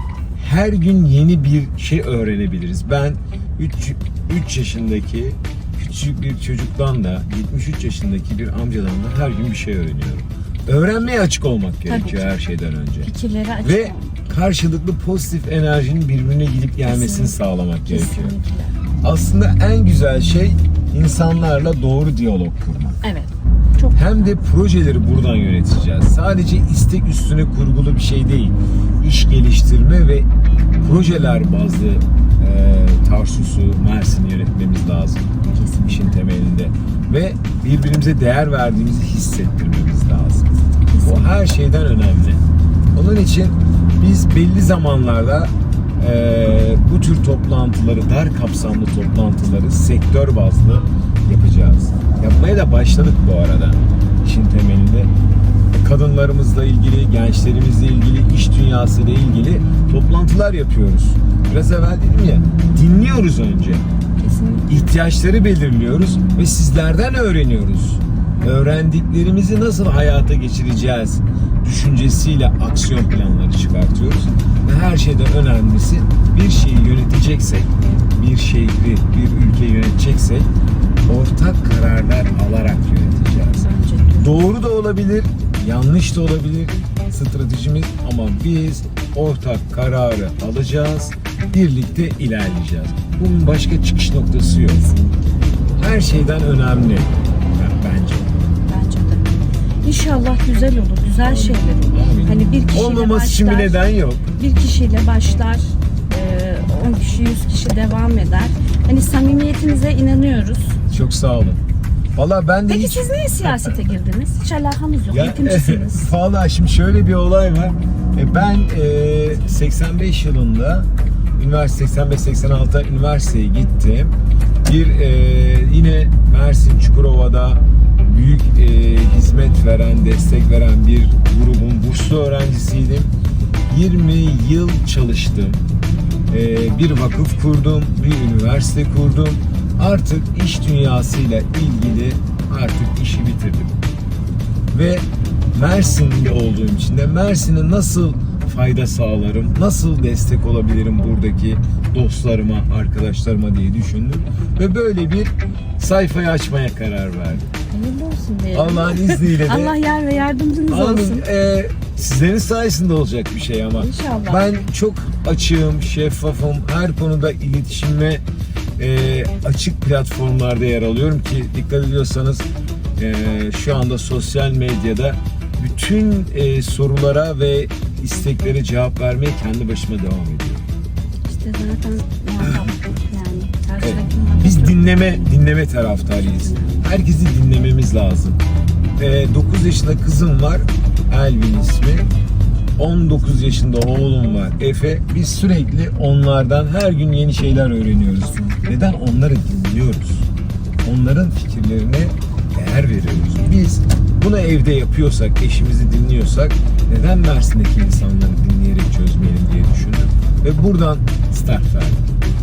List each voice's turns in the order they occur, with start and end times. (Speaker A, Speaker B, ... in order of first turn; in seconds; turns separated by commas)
Speaker A: 0.3-13.1, Speaker B: 11.9-12.3, Speaker B: 13.0-14.3, Speaker A: 13.6-18.3, Speaker B: 16.8-18.7, Speaker A: 19.0-23.0, Speaker B: 23.0-24.3, Speaker A: 23.9-30.3, Speaker A: 30.8-35.3, Speaker B: 35.4-36.2, Speaker A: 35.8-40.5, Speaker B: 40.9-41.3, Speaker A: 41.0-42.4, Speaker A: 42.9-55.1, Speaker A: 55.7-63.9, Speaker B: 64.2-64.9, Speaker A: 64.7-80.5, Speaker A: 81.1-94.9, Speaker B: 83.6-84.4, Speaker B: 94.7-95.5, Speaker A: 95.8-98.3, Speaker B: 98.7-99.2, Speaker B: 99.8-103.8, Speaker A: 101.2-104.2, Speaker B: 104.4-110.8, Speaker A: 110.9-111.6, Speaker A: 112.2-113.8, Speaker B: 112.7-116.1, Speaker A: 115.1-133.1, Speaker A: 133.7-135.6, Speaker A: 136.3-143.7, Speaker A: 144.7-157.5, Speaker B: 157.7-161.2, Speaker A: 158.5-159.8, Speaker A: 160.7-168.2, Speaker B: 163.8-164.5, Speaker A: 168.8-172.4, Speaker A: 173.0-180.7, Speaker B: 181.2-185.3, Speaker A: 182.4-182.7, Speaker A: 183.8-188.4, Speaker B: 186.2-186.9, Speaker A: 189.0-192.1, Speaker A: 192.8-200.3, Speaker A: 200.8-212.0